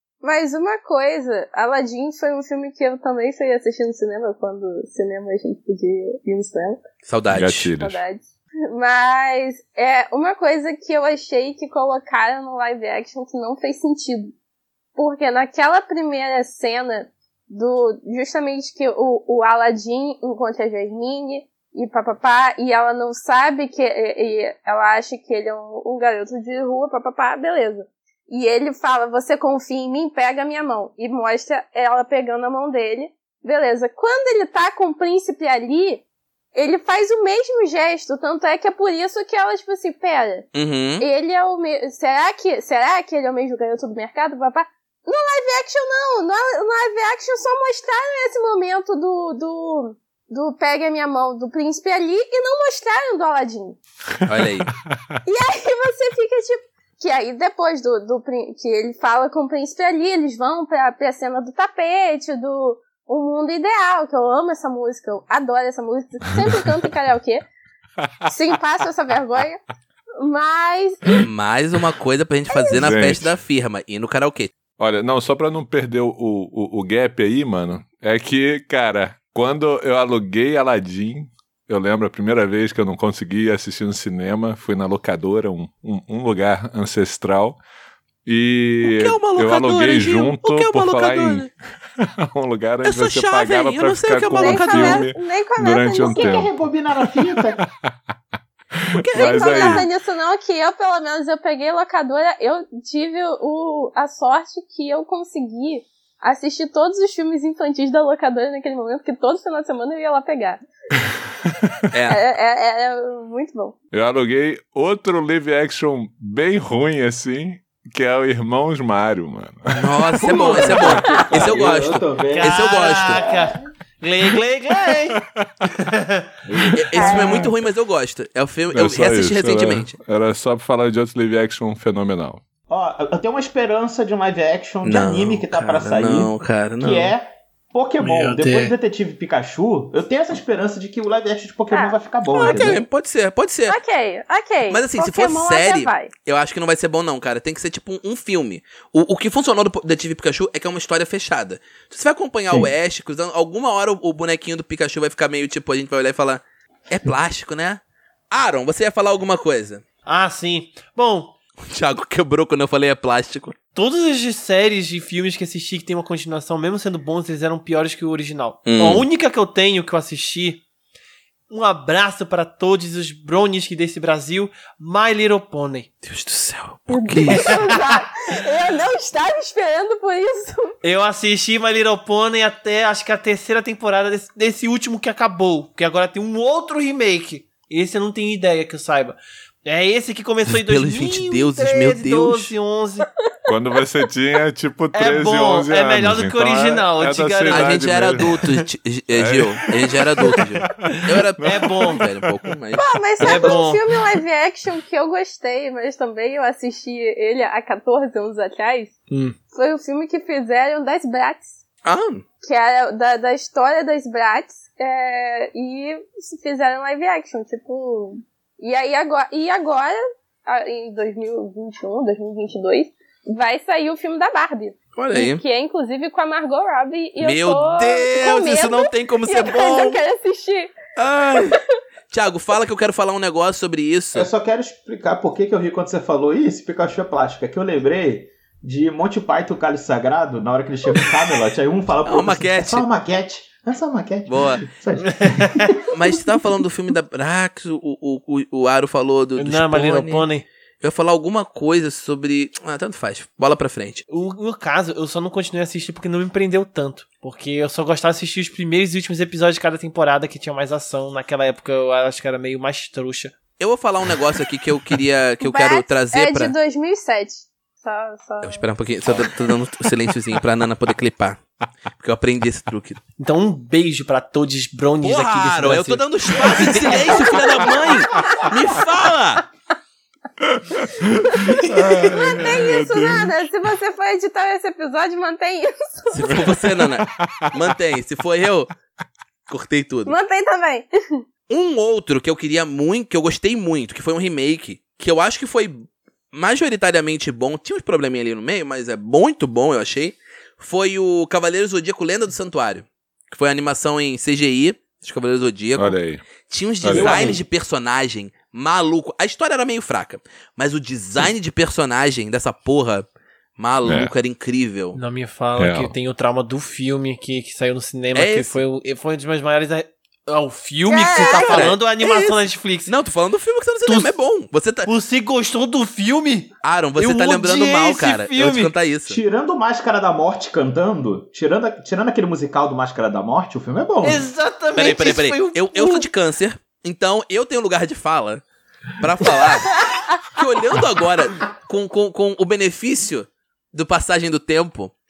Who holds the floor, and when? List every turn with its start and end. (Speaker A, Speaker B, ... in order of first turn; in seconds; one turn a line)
Speaker A: 0.2-6.8
Speaker B: 7.0-7.7
Speaker C: 7.3-8.0
Speaker A: 7.8-14.3
Speaker A: 14.9-36.0
Speaker A: 36.5-40.5
Speaker B: 40.5-41.0
Speaker A: 41.0-53.8
Speaker C: 54.2-55.0
Speaker B: 54.2-54.7
Speaker A: 55.2-67.4
Speaker A: 68.2-69.6
Speaker A: 70.2-71.2
Speaker B: 71.2-74.5
Speaker A: 72.5-72.8
Speaker C: 72.7-73.3
Speaker C: 74.8-87.6
Speaker C: 88.2-97.9
Speaker B: 88.8-91.5
Speaker B: 92.8-95.1
Speaker A: 94.3-96.4
Speaker D: 96.1-97.6
Speaker C: 98.8-99.9
Speaker B: 98.9-99.9
Speaker A: 99.1-110.6
Speaker B: 111.9-112.2
Speaker A: 112.1-113.8
Speaker C: 113.9-120.2
Speaker B: 119.7-123.2
Speaker D: 120.2-123.6
Speaker A: 120.9-121.2
Speaker E: 122.3-125.2
Speaker C: 125.2-125.5
Speaker E: 125.7-126.3
Speaker C: 126.5-127.5
Speaker B: 126.7-129.9
Speaker A: 126.9-127.5
Speaker C: 128.7-132.4
Speaker D: 132.7-142.8
Speaker B: 134.8-137.1
Speaker E: 138.0-138.8
Speaker A: 141.7-142.8
Speaker B: 142.4-143.8
Speaker A: 143.7-146.1
Speaker B: 144.7-159.8
Speaker E: 160.1-161.3
Speaker B: 161.6-163.6
Speaker E: 163.7-170.6
Speaker B: 168.7-169.1
Speaker E: 171.5-175.9
Speaker B: 176.0-177.5
Speaker A: 176.9-180.8
Speaker E: 177.2-177.9
Speaker E: 180.8-193.1
Speaker B: 190.5-192.5
Speaker C: 193.5-198.4
Speaker E: 194.9-198.5
Speaker B: 197.5-202.8
Speaker C: 199.1-199.9
Speaker C: 200.8-202.2
Speaker E: 200.9-202.0
Speaker A: 202.7-208.9
Speaker E: 203.2-203.8
Speaker E: 209.1-209.3
Speaker A: 209.5-211.6
Speaker B: 211.8-212.2
Speaker A: 212.4-230.7
Speaker B: 224.9-225.4
Speaker B: 227.2-230.0
Speaker B: 230.9-231.6
Speaker A: 231.3-231.6
Speaker B: 232.1-234.3
Speaker D: 234.1-245.9
Speaker B: 242.0-242.8
Speaker B: 244.3-244.7
Speaker E: 245.0-245.7
Speaker B: 245.9-250.3
Speaker E: 249.3-250.4
Speaker B: 250.8-254.0
Speaker E: 254.1-263.4
Speaker B: 263.6-266.5
Speaker A: 265.4-268.6
Speaker B: 268.4-271.4
Speaker B: 272.0-273.0
Speaker E: 273.2-277.4
Speaker B: 275.0-279.4
Speaker A: 276.9-278.5
Speaker C: 280.4-283.4
Speaker A: 281.2-286.5
Speaker B: 286.1-288.7
Speaker C: 287.0-287.6
Speaker B: 289.5-290.1
Speaker A: 290.1-291.2
Speaker B: 291.5-313.1
Speaker C: 305.8-306.2
Speaker C: 306.8-307.3
Speaker D: 306.9-307.4
Speaker B: 313.6-315.0
Speaker C: 313.8-314.1
Speaker E: 314.9-322.9
Speaker C: 315.6-315.9
Speaker B: 318.1-318.6
Speaker A: 320.8-321.7
Speaker B: 321.2-322.3
Speaker B: 322.9-324.9
Speaker E: 323.9-324.1
Speaker E: 324.9-328.7
Speaker B: 326.6-329.2
Speaker D: 329.1-334.3
Speaker E: 334.0-336.1
Speaker B: 334.7-338.4
Speaker B: 339.0-344.9
Speaker A: 339.8-340.2